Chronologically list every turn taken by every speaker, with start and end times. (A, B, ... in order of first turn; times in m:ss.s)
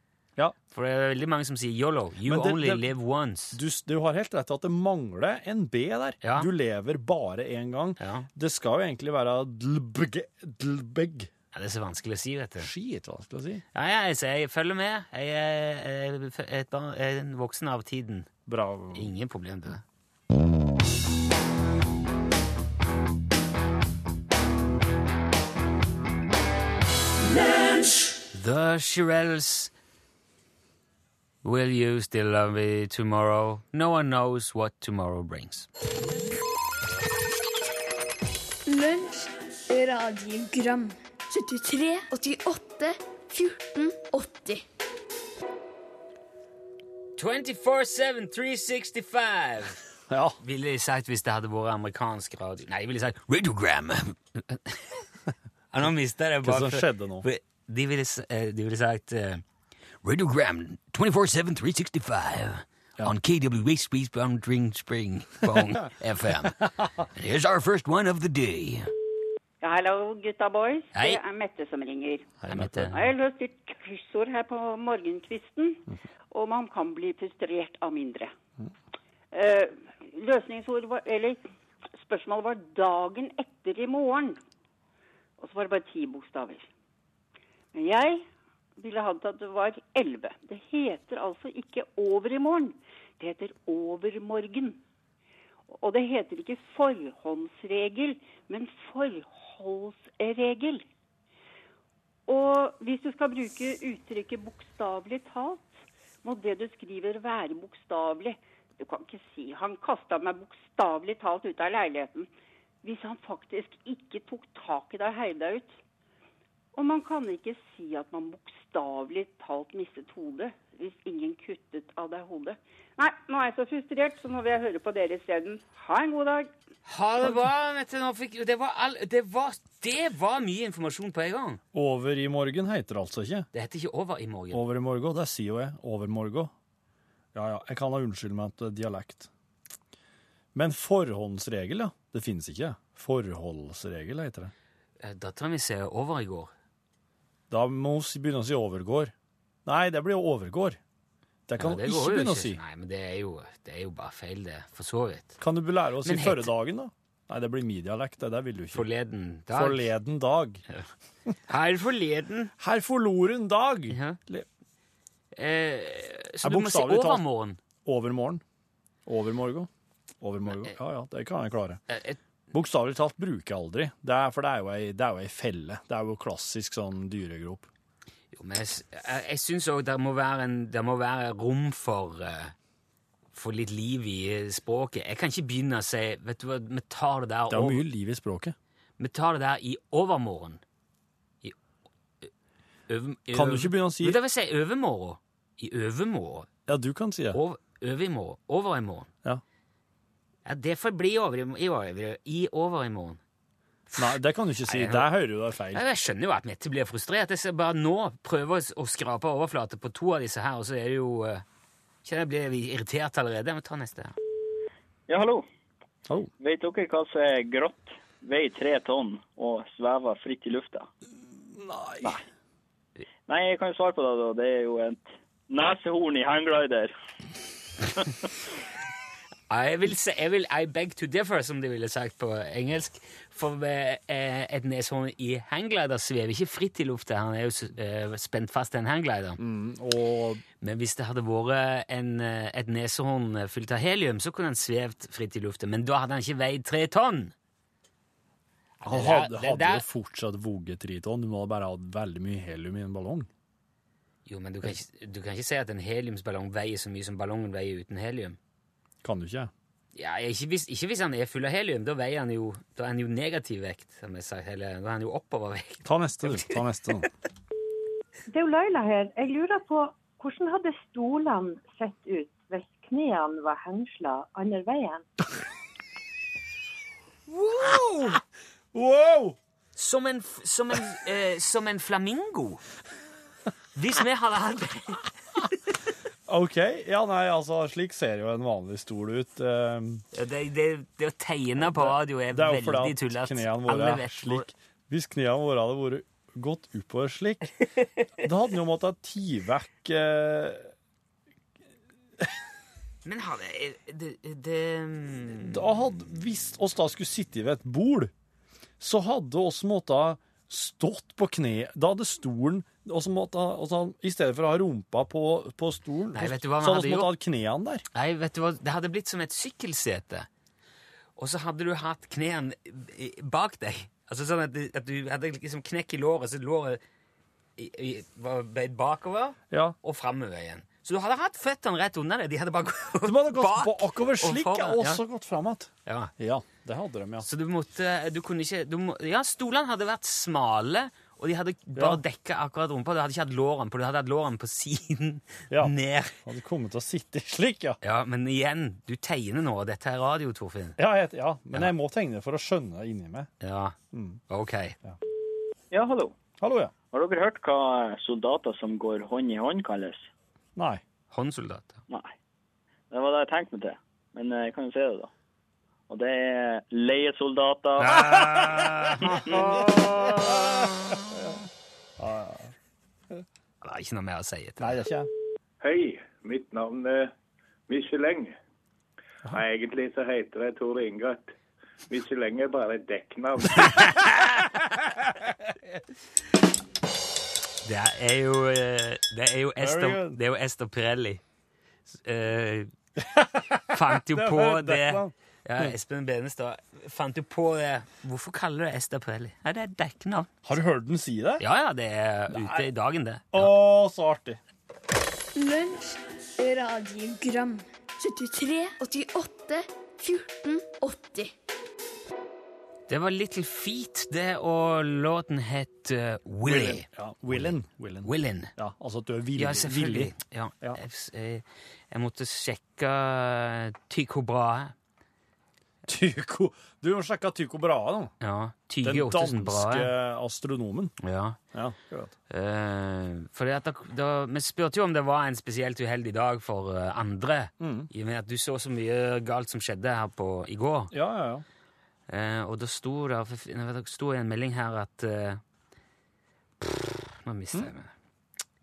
0:00.7-0:03.6 A
0:02.2-0:02.9 B
0:03.5-0:11.3 B
0:06.2-0:06.5 A
0:08.0-0:08.3 A
0:11.5-0:12.7 A
0:12.6-0:13.6 B
0:13.7-0:18.3 A
0:18.4-0:19.1 B
0:18.9-0:19.8 A
0:28.3-0:29.7 A
0:31.4-0:35.7 A
0:38.6-0:44.6 C
0:47.2-0:49.8 A
0:50.1-0:50.4 B
0:50.4-0:55.0 A
0:55.7-0:59.4 A
0:56.4-0:57.3 B
1:00.0-1:08.9 A
1:09.6-1:12.3 D
1:10.9-1:11.2 A
1:12.4-1:12.9 B
1:12.5-1:13.0 A
1:12.9-1:18.3 D
1:19.3-1:21.4 D
1:22.0-1:24.4 D
1:25.4-1:26.7 D
1:27.7-1:28.2 D
1:28.8-1:34.8 D
1:35.7-1:40.8 D
1:42.3-1:52.3 D
1:52.8-1:55.8 D
1:56.7-2:06.5 D
2:06.9-2:11.6 A
2:11.7-2:13.5 B
2:13.5-2:14.6 A
2:14.5-2:16.5 B
2:17.3-2:19.3 B
2:20.5-2:24.5 B
2:25.0-2:26.5 A
2:27.5-2:29.1 B
2:29.6-2:30.8 B
2:31.5-2:32.6 B
2:31.6-2:35.4 A
2:35.4-2:38.9 B
2:36.0-2:36.5 A
2:38.7-2:39.9 A
2:39.5-2:40.6 B
2:41.5-2:42.5 A
2:42.6-2:44.4 B
2:43.9-2:44.2 A
2:45.4-2:47.6 A
2:46.4-2:47.2 B
2:47.8-2:48.4 B
2:49.0-2:49.7 B
2:50.2-2:51.8 B
2:51.9-2:52.2 A
2:52.5-2:57.7 B
2:58.3-3:02.5 A
3:03.3-3:07.8 A
3:07.5-3:08.5 B
3:09.0-3:10.6 A
3:12.9-3:16.5 A
3:13.3-3:14.2 B
3:16.7-3:17.4 B
3:17.3-3:19.1 A
3:20.4-3:23.2 A
3:23.9-3:25.1 A
3:24.0-3:25.8 B
3:25.7-3:31.4 A
3:32.0-3:34.1 A
3:35.1-3:35.4 E
3:36.4-3:40.9 E
3:41.5-3:42.2 B
3:43.3-3:46.9 E
3:49.5-3:59.4 A
3:59.4-4:00.4 B
4:00.6-4:07.3 A
4:08.8-4:09.8 A
4:08.8-4:13.3 B
4:14.2-4:18.4 A
4:19.0-4:19.5 B
4:19.9-4:26.6 A
4:25.8-4:27.1 B
4:28.3-4:35.0 F
4:37.3-4:38.2 B
4:37.6-4:38.1 A
4:38.7-4:39.4 B
4:39.8-4:42.6 A
4:43.7-4:45.1 A
4:46.3-4:50.0 B
4:50.1-4:54.5 A
4:51.6-4:57.5 B
4:58.2-5:00.7 B
5:03.0-5:05.6 A
5:05.4-5:08.1 B
5:08.8-5:17.8 B
5:16.1-5:17.2 A
5:17.9-5:20.3 A
5:21.2-5:26.8 A
5:27.6-5:35.0 A
5:33.0-5:37.2 B
5:35.9-5:36.1 A
5:37.2-5:46.2 A
5:45.5-5:47.8 B
5:47.8-5:50.8 A
5:50.8-5:53.3 B
5:53.4-5:53.8 A
5:53.9-5:54.2 B
5:54.3-5:54.8 A
5:55.7-5:56.1 E
5:56.4-5:56.7 B
5:56.9-6:00.1 E
6:00.6-6:00.8 B
6:01.1-6:01.8 A
6:02.9-6:05.1 E
6:05.9-6:08.0 E
6:07.8-6:11.0 A
6:09.3-6:10.4 B
6:12.0-6:12.5 B
6:13.6-6:14.8 A
6:14.6-6:15.1 B
6:15.6-6:17.1 G
6:17.7-6:18.4 G
6:19.3-6:21.3 G
6:21.9-6:24.0 G
6:23.7-6:24.4 A
6:27.6-6:31.2 A
6:29.6-6:30.2 B
6:31.9-6:32.7 A
6:33.0-6:35.7 B
6:33.7-6:40.3 A
6:40.4-6:41.4 B
6:41.4-6:43.5 A
6:42.3-6:42.6 B
6:43.3-6:44.4 B
6:45.4-6:51.3 C
6:52.9-6:58.5 A
6:56.4-7:00.8 B
6:59.4-7:04.7 A
7:05.9-7:08.1 B
7:08.2-7:09.9 A
7:08.8-7:10.9 B
7:11.0-7:11.4 A
7:11.5-7:12.1 B
7:12.3-7:20.9 A
7:17.6-7:17.9 B
7:20.9-7:21.4 B
7:22.1-7:25.4 A
7:26.6-7:27.9 A